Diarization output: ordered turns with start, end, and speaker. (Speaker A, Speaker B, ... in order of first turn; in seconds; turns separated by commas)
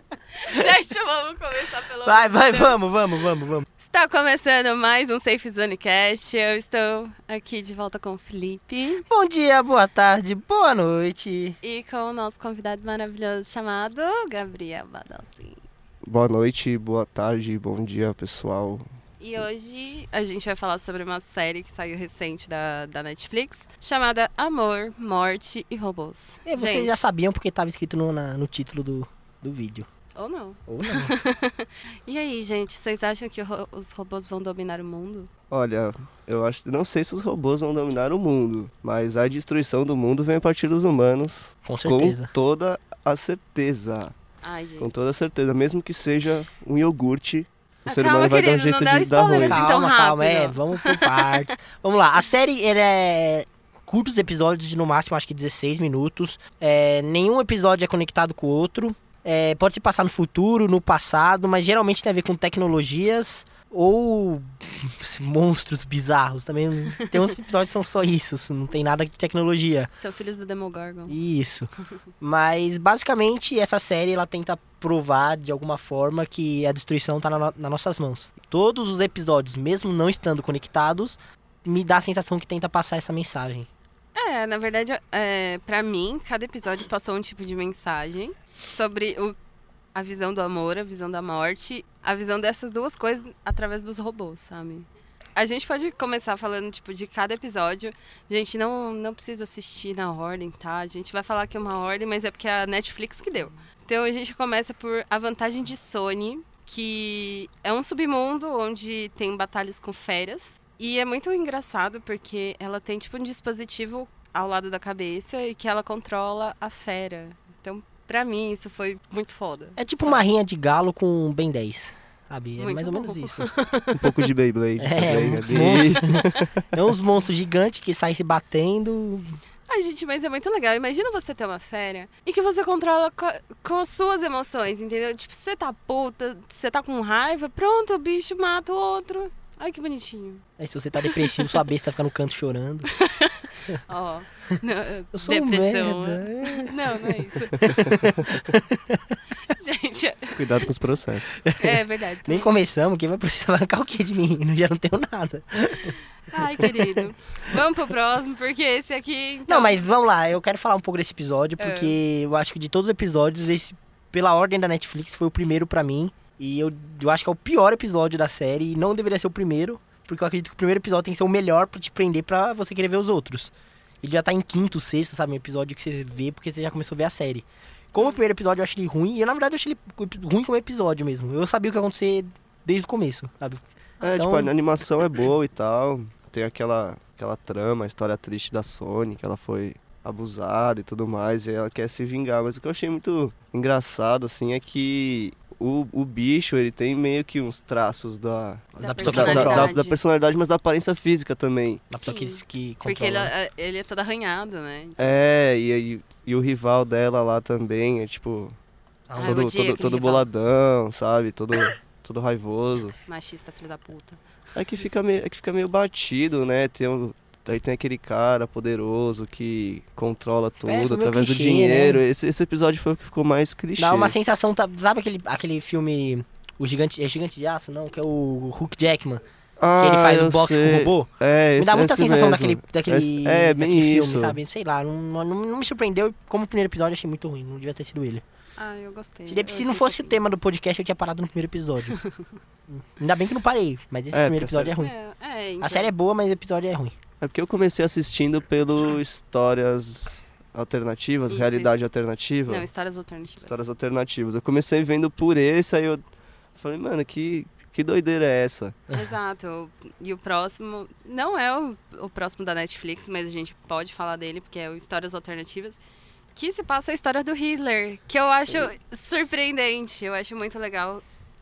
Speaker A: 0.3-2.8, Speaker B: 2.0-3.6, Speaker A: 3.8-9.0, Speaker B: 9.1-11.6, Speaker A: 11.6-15.6, Speaker C: 16.0-18.8, Speaker A: 19.2-27.0, Speaker B: 26.4-29.9, Speaker A: 30.1-35.3, Speaker B: 30.7-31.1, Speaker C: 35.5-44.1, Speaker B: 41.6-42.3, Speaker A: 44.4-44.9, Speaker C: 44.8-49.6, Speaker A: 47.8-51.5, Speaker B: 49.4-69.9, Speaker A: 70.0-71.2, Speaker B: 71.1-83.7, Speaker A: 84.1-89.3, Speaker A: 89.9-120.2, Speaker B: 119.8-123.5, Speaker A: 122.6-124.1, Speaker C: 123.9-126.6, Speaker B: 124.8-129.3, Speaker A: 125.9-126.4, Speaker A: 129.7-140.4, Speaker B: 140.6-142.9, Speaker A: 141.0-141.7, Speaker A: 142.9-148.0, Speaker B: 145.1-149.2, Speaker A: 149.4-150.7, Speaker C: 150.3-151.4, Speaker B: 151.4-157.6, Speaker A: 151.6-152.5, Speaker A: 156.2-159.8, Speaker B: 159.5-184.5, Speaker A: 161.6-161.9, Speaker C: 184.0-201.8, Speaker A: 198.8-200.0, Speaker B: 198.8-199.8, Speaker B: 201.9-203.3, Speaker A: 202.0-205.0, Speaker C: 205.0-208.5, Speaker B: 209.1-209.5, Speaker A: 209.2-210.3, Speaker C: 209.2-212.9, Speaker A: 213.1-214.2, Speaker C: 214.5-224.1, Speaker B: 220.7-222.0, Speaker B: 223.8-229.2, Speaker C: 229.6-234.4, Speaker B: 229.8-238.2, Speaker A: 238.6-240.2, Speaker B: 239.3-242.0, Speaker A: 241.9-242.3, Speaker B: 242.7-244.9, Speaker C: 244.1-244.8, Speaker A: 244.8-245.9, Speaker B: 245.6-246.9, Speaker C: 247.2-252.7, Speaker A: 251.3-251.7, Speaker A: 252.5-253.7, Speaker C: 253.4-256.0, Speaker C: 256.6-258.8, Speaker A: 258.9-265.8, Speaker A: 266.3-271.0